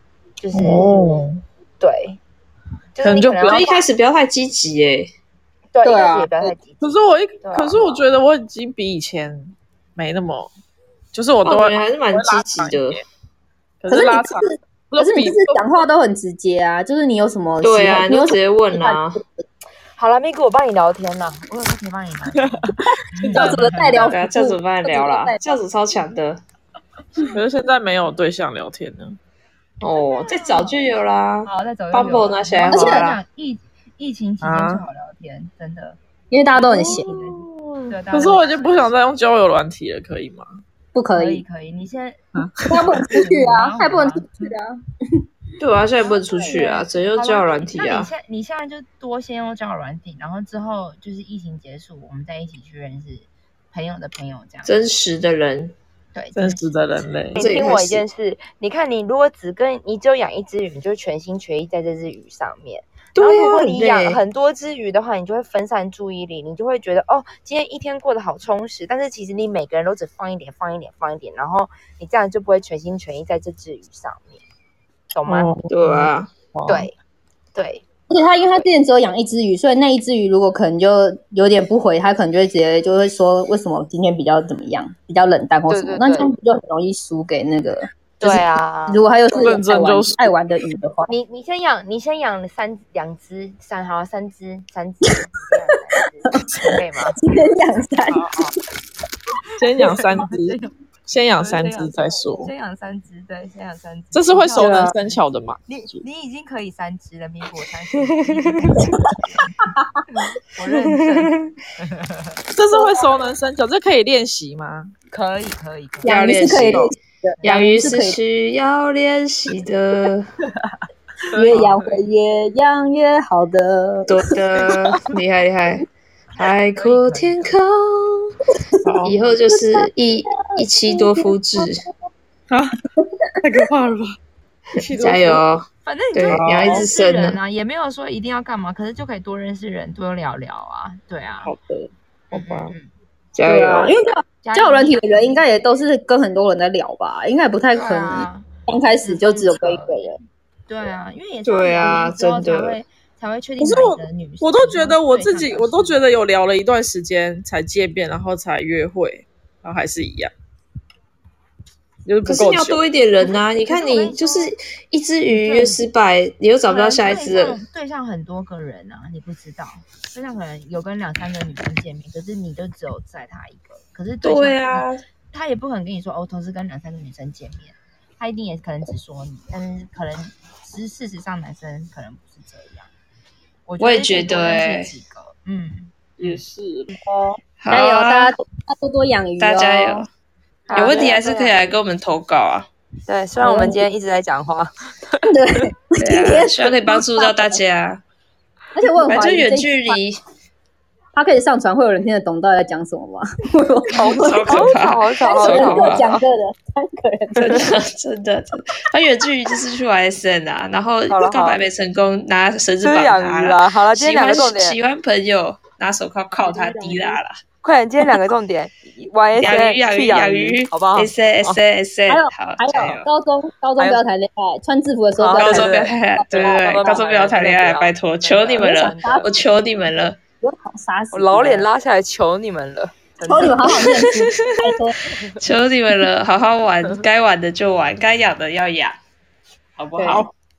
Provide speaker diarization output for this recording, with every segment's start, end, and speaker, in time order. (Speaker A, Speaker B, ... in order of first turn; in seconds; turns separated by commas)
Speaker A: 0.4-0.9, Speaker B: 0.7-1.2, Speaker A: 1.8-2.2, Speaker A: 3.0-3.8, Speaker C: 3.0-3.6, Speaker D: 3.4-5.1, Speaker A: 5.7-8.0, Speaker B: 5.8-6.3, Speaker C: 6.7-10.5, Speaker C: 11.1-13.0, Speaker D: 11.4-13.0, Speaker C: 13.8-15.6, Speaker B: 13.9-19.4, Speaker D: 17.6-19.2, Speaker A: 20.0-24.0, Speaker C: 22.4-24.1, Speaker B: 23.3-25.6, Speaker D: 23.9-26.4, Speaker C: 27.3-29.2, Speaker D: 29.8-33.2, Speaker A: 30.3-30.9, Speaker A: 31.4-36.0, Speaker B: 32.6-33.1, Speaker C: 34.4-34.9, Speaker B: 36.3-37.1, Speaker A: 36.6-39.0, Speaker C: 36.7-40.5, Speaker B: 40.9-41.4, Speaker A: 41.1-42.2, Speaker C: 42.4-42.9, Speaker B: 42.7-44.8, Speaker A: 42.8-44.6, Speaker D: 45.6-48.1, Speaker A: 46.0-54.7, Speaker D: 54.6-55.8, Speaker A: 56.1-56.7, Speaker C: 56.4-57.6, Speaker A: 57.3-74.4, Speaker D: 57.4-58.0, Speaker D: 63.2-64.2, Speaker A: 75.1-75.7, Speaker D: 75.3-76.3, Speaker C: 75.6-76.0, Speaker C: 76.5-76.9, Speaker A: 76.7-77.0, Speaker A: 77.5-77.8, Speaker B: 78.1-91.1, Speaker A: 85.7-86.3, Speaker A: 88.2-89.6, Speaker C: 89.4-90.3, Speaker A: 91.1-97.2, Speaker B: 96.3-98.4, Speaker A: 98.1-98.5, Speaker C: 99.6-102.5, Speaker A: 99.8-100.7, Speaker A: 101.4-109.6, Speaker C: 104.1-106.0, Speaker B: 104.6-105.0, Speaker B: 109.8-110.0, Speaker A: 110.1-112.4, Speaker D: 111.1-111.5, Speaker C: 112.5-114.9, Speaker B: 112.7-113.1, Speaker A: 115.1-117.5, Speaker B: 116.0-118.2, Speaker D: 116.0-116.9, Speaker D: 117.4-120.3, Speaker C: 121.3-122.0, Speaker B: 121.3-124.2, Speaker D: 124.1-125.9, Speaker A: 126.4-127.6, Speaker D: 126.4-128.4, Speaker C: 128.8-129.2, Speaker D: 129.0-131.9, Speaker B: 129.5-131.7, Speaker C: 132.5-132.8, Speaker B: 133.0-133.6, Speaker C: 133.4-134.2, Speaker C: 134.7-135.4, Speaker D: 134.9-137.4, Speaker A: 135.8-141.5, Speaker C: 136.4-136.9, Speaker C: 141.4-142.7, Speaker A: 142.3-142.9, Speaker D: 143.3-143.9, Speaker B: 143.4-150.2, Speaker A: 144.4-145.5, Speaker A: 147.7-148.5, Speaker A: 149.0-149.9, Speaker A: 150.7-156.0, Speaker D: 151.5-152.8, Speaker C: 153.6-160.3, Speaker C: 162.1-162.8, Speaker D: 162.3-167.6, Speaker A: 163.2-164.5, Speaker A: 165.3-165.9, Speaker A: 166.7-182.9, Speaker D: 174.2-175.0, Speaker A: 183.7-185.9, Speaker D: 183.8-184.9, Speaker C: 186.2-186.9, Speaker A: 186.9-187.4, Speaker D: 187.6-188.3, Speaker B: 187.7-190.1, Speaker D: 189.4-190.1, Speaker A: 190.7-191.7, Speaker D: 190.7-192.7, Speaker A: 193.1-194.7, Speaker B: 193.4-193.8, Speaker B: 195.2-197.6, Speaker D: 196.0-198.0, Speaker B: 198.8-200.0, Speaker D: 199.1-200.2, Speaker B: 201.2-204.6, Speaker D: 204.0-206.1, Speaker A: 204.1-206.2, Speaker B: 205.2-207.7, Speaker D: 207.4-217.3, Speaker A: 211.1-211.7, Speaker A: 212.8-214.8, Speaker A: 216.4-221.6, Speaker D: 219.4-223.1, Speaker B: 222.1-227.1, Speaker A: 225.2-225.9, Speaker D: 225.3-230.2, Speaker A: 226.6-229.3, Speaker B: 228.6-229.2, Speaker B: 230.4-231.7, Speaker A: 231.1-233.9, Speaker B: 233.3-235.0, Speaker D: 233.9-234.6, Speaker D: 235.4-239.0, Speaker D: 239.8-240.3